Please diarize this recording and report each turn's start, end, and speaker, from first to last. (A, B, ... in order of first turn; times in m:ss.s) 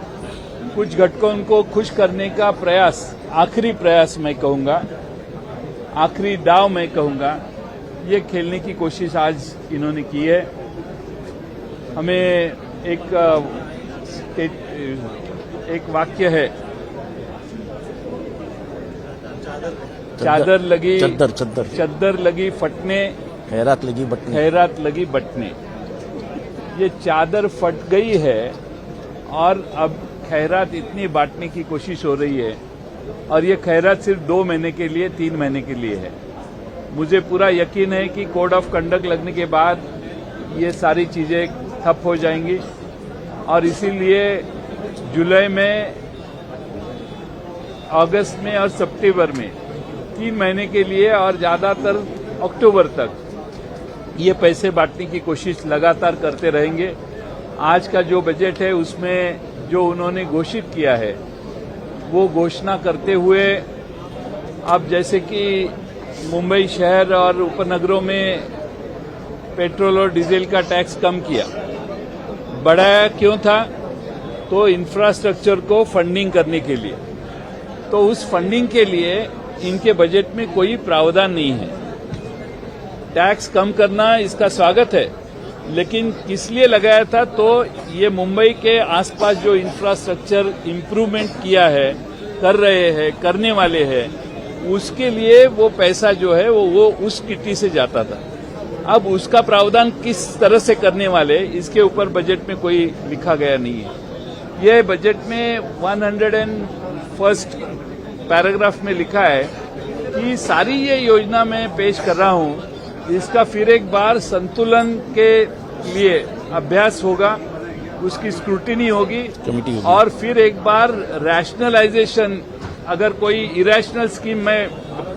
0:00.7-0:04.8 A
0:05.9-0:07.4 A
0:08.0-0:10.5 A
0:12.0-0:13.7 A
0:14.3-0:16.5 A
0:20.2-0:21.8 B
0:20.2-0:21.2 A
0:21.7-0:23.1 A
0:23.5-0:24.4 B
0:24.3-0:25.5 A
0:26.7-0:28.5 A
0:29.3-0:32.6 A
0:33.3-0:36.1 A
0:36.9-0:39.8 A
0:40.5-0:42.6 A
0:43.4-0:44.5 A
0:45.0-0:46.0 A
0:47.9-0:49.6 A
0:50.1-0:53.2 A
0:54.2-0:57.0 A
0:57.6-1:01.2 A
1:02.0-1:03.6 A
1:04.6-1:08.5 A
1:09.5-1:11.5 A
1:12.5-1:13.7 A
1:14.5-1:17.0 A
1:17.9-1:21.8 A
1:23.1-1:25.1 A
1:25.7-1:38.2 A
1:38.9-1:43.9 A
1:44.6-1:47.6 A
1:48.3-1:49.5 A
1:50.1-1:57.4 A
1:58.0-2:04.8 A
1:59.4-2:00.0 B